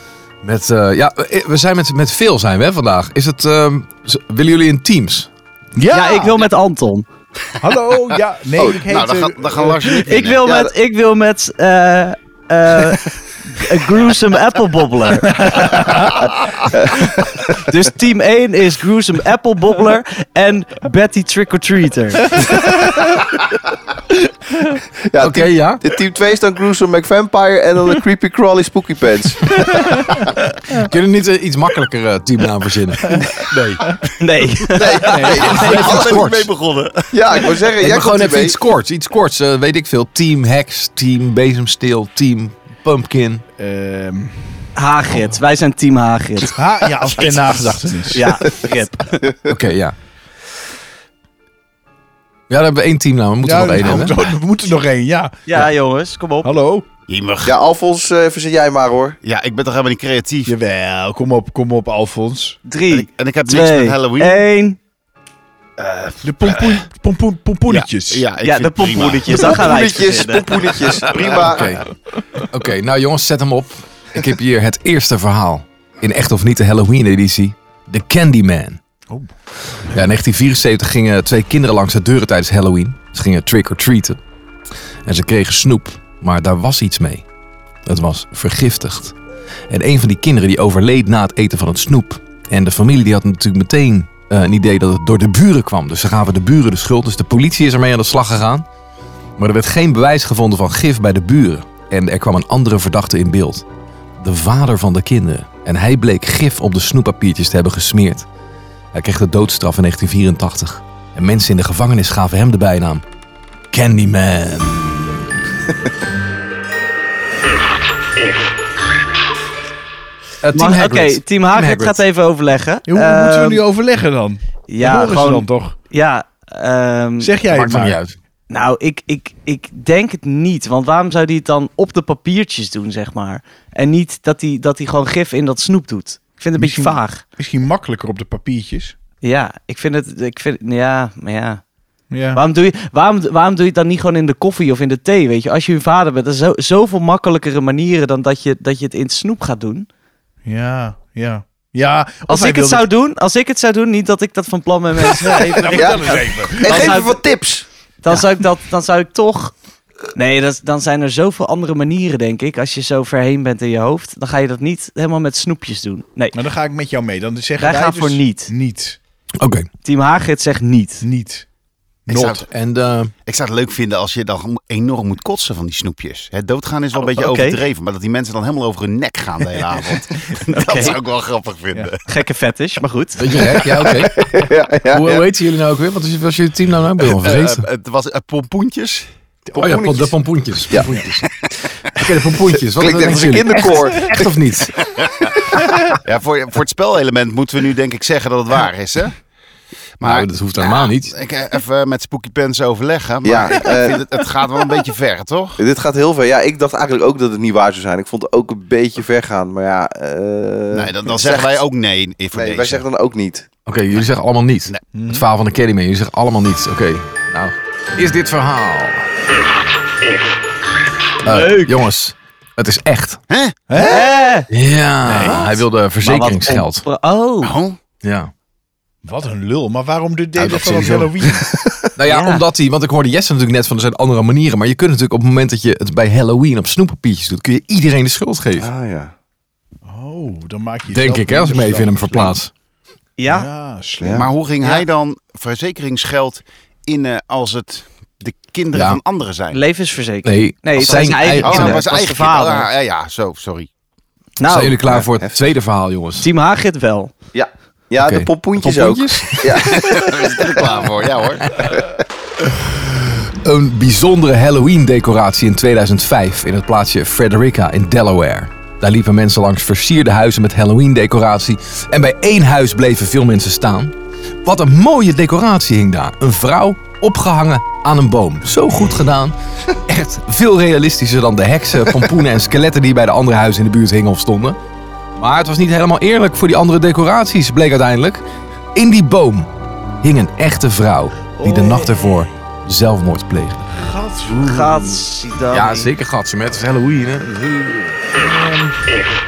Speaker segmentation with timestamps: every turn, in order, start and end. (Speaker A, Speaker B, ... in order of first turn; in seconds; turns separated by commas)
Speaker A: 0.4-5.3, Speaker B: 5.8-6.3, Speaker C: 5.9-7.1, Speaker B: 7.6-10.0, Speaker D: 8.6-8.8, Speaker E: 8.9-10.5, Speaker C: 10.0-16.0, Speaker D: 10.3-10.7, Speaker B: 15.5-15.9, Speaker D: 16.2-17.6, Speaker C: 17.6-22.5, Speaker B: 22.4-23.0, Speaker D: 25.1-29.6, Speaker A: 25.2-25.8, Speaker B: 29.8-30.2, Speaker A: 30.7-33.3, Speaker E: 33.4-34.0, Speaker C: 34.2-35.7, Speaker D: 34.8-36.3, Speaker B: 35.0-35.7, Speaker E: 35.5-37.1, Speaker A: 35.5-36.5, Speaker D: 37.1-38.5, Speaker A: 37.8-43.4, Speaker B: 43.6-44.7, Speaker C: 44.8-46.6, Speaker B: 46.5-48.4, Speaker C: 48.1-49.2, Speaker A: 49.5-50.0, Speaker A: 52.5-54.2, Speaker B: 53.4-55.7, Speaker C: 55.5-56.5, Speaker B: 56.4-56.9, Speaker E: 57.1-57.6, Speaker D: 57.5-59.2, Speaker E: 59.2-60.5, Speaker B: 60.5-62.6, Speaker C: 62.7-64.8, Speaker E: 62.9-64.4, Speaker B: 65.8-68.3, Speaker E: 67.7-69.7, Speaker C: 68.4-70.5, Speaker D: 69.4-71.8, Speaker A: 71.4-71.9, Speaker A: 72.4-78.8, Speaker A: 79.9-84.2, Speaker A: 85.1-87.2, Speaker A: 87.9-89.2, Speaker A: 89.7-98.7, Speaker A: 99.4-103.7, Speaker A: 104.2-108.3, Speaker A: 108.9-113.0, Speaker A: 113.7-115.3, Speaker A: 120.4-122.0, Speaker C: 120.5-123.6, Speaker B: 122.9-125.8, Speaker C: 124.7-127.4, Speaker B: 127.2-128.0, Speaker A: 127.5-128.2, Speaker C: 128.5-137.2, Speaker B: 136.6-139.0, Speaker C: 139.2-141.6, Speaker B: 142.1-142.4, Speaker C: 142.3-149.9, Speaker B: 150.4-152.9, Speaker C: 152.3-157.2, Speaker B: 155.0-157.0, Speaker D: 155.7-157.7, Speaker C: 158.0-159.5, Speaker C: 160.2-166.4, Speaker B: 166.3-169.0, Speaker C: 167.6-168.5, Speaker A: 169.4-169.7, Speaker C: 169.8-171.0, Speaker B: 171.0-171.5, Speaker B: 172.1-172.4, Speaker E: 172.1-172.4, Speaker A: 172.1-173.1, Speaker E: 173.3-182.0, Speaker C: 177.0-177.6, Speaker C: 180.5-181.0, Speaker C: 182.1-183.3, Speaker A: 183.2-184.3, Speaker D: 183.4-185.2, Speaker A: 184.9-187.7, Speaker E: 187.1-189.1, Speaker D: 189.5-190.1, Speaker A: 189.6-191.3, Speaker A: 191.9-194.8, Speaker D: 192.5-194.3, Speaker E: 194.9-195.4, Speaker E: 195.9-199.2, Speaker E: 200.0-205.6, Speaker A: 200.0-201.1, Speaker D: 203.2-204.1, Speaker D: 205.6-211.6, Speaker E: 210.7-212.8, Speaker D: 212.3-213.5, Speaker A: 213.7-219.1, Speaker B: 214.9-215.3, Speaker A: 221.2-223.2, Speaker C: 221.2-221.8, Speaker E: 223.3-223.6, Speaker B: 223.7-224.2, Speaker C: 223.8-224.5, Speaker A: 224.5-226.8, Speaker B: 225.1-225.5, Speaker C: 226.0-227.6, Speaker E: 227.4-227.8, Speaker A: 228.0-228.3, Speaker B: 229.0-231.6, Speaker A: 230.4-231.4, Speaker D: 231.5-231.9, Speaker A: 232.0-238.7, Speaker C: 232.1-232.4, Speaker D: 238.6-239.1, Speaker B: 239.9-242.4, Speaker A: 240.9-242.5, Speaker C: 243.2-243.5, Speaker B: 243.3-244.3, Speaker D: 244.0-244.3, Speaker E: 244.1-249.6, Speaker A: 248.7-249.0, Speaker C: 249.5-252.7, Speaker A: 250.2-251.8, Speaker E: 250.8-253.7, Speaker C: 254.4-254.8, Speaker A: 254.4-256.3, Speaker D: 254.9-255.3, Speaker C: 256.2-257.1, Speaker D: 257.3-260.4, Speaker A: 258.0-259.9, Speaker E: 259.7-261.8, Speaker A: 262.5-279.4, Speaker A: 279.9-284.6, Speaker A: 285.2-288.2, Speaker A: 288.8-289.5, Speaker A: 290.0-293.7, Speaker C: 291.4-292.2, Speaker B: 293.8-295.0, Speaker C: 294.3-295.9, Speaker A: 295.5-298.0, Speaker B: 298.2-298.9